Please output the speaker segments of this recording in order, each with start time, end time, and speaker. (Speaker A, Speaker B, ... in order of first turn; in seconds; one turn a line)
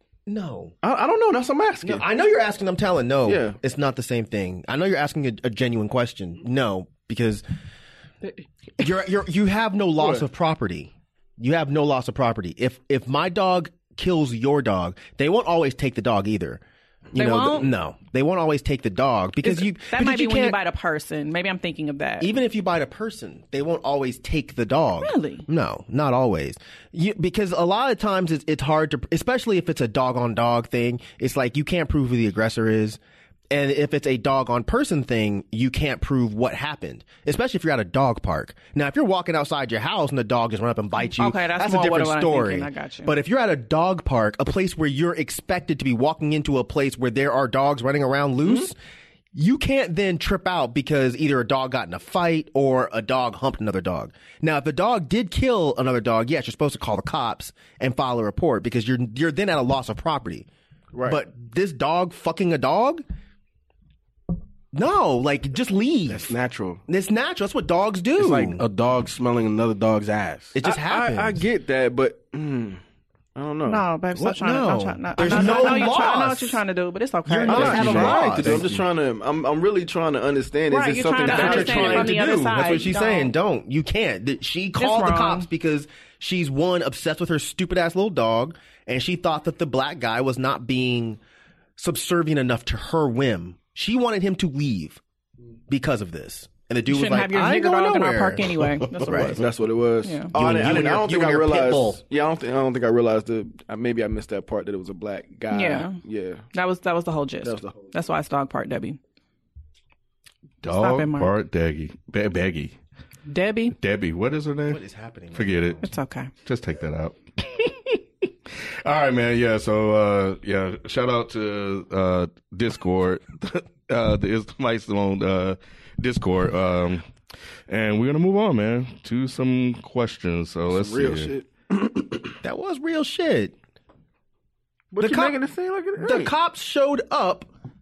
Speaker A: 0.3-0.7
Speaker B: 0.8-2.0
Speaker A: 1.8-7.4
Speaker B: 3.2-3.6
Speaker A: 8.8-16.6
Speaker B: 10.0-10.2
Speaker A: 17.1-20.6
Speaker C: 17.1-17.7
Speaker C: 19.4-22.3
Speaker A: 22.2-33.0
Speaker C: 25.0-25.4
Speaker A: 33.5-48.8
Speaker C: 41.0-43.2
Speaker A: 49.3-60.5
Speaker B: 60.9-61.2
Speaker A: 61.0-63.0
Speaker A: 64.7-66.3
Speaker D: 66.1-66.8
Speaker A: 66.9-68.6
Speaker D: 68.2-70.6
Speaker A: 70.5-71.4
Speaker B: 70.6-72.8
Speaker B: 73.4-73.8
Speaker C: 73.6-78.2
Speaker A: 74.2-76.6
Speaker B: 75.3-75.7
Speaker A: 77.3-78.8
Speaker B: 77.5-82.2
Speaker D: 77.7-78.8
Speaker C: 80.7-83.3
Speaker A: 81.2-91.2
Speaker C: 84.8-85.5
Speaker A: 91.8-95.0
Speaker A: 95.7-99.4
Speaker C: 96.9-99.4
Speaker B: 99.2-106.5
Speaker C: 100.0-100.3
Speaker A: 100.3-102.0
Speaker C: 105.5-106.0
Speaker C: 106.5-109.0
Speaker B: 107.4-107.8
Speaker E: 110.6-112.8
Speaker C: 110.6-111.3
Speaker C: 113.3-113.8
Speaker E: 113.8-115.8
Speaker A: 114.7-115.8
Speaker C: 115.8-116.3
Speaker E: 116.4-118.0
Speaker E: 118.8-127.0
Speaker E: 127.7-131.3
Speaker B: 130.7-132.3
Speaker A: 132.4-133.6
Speaker B: 134.9-136.3
Speaker A: 135.0-135.4
Speaker A: 136.0-137.5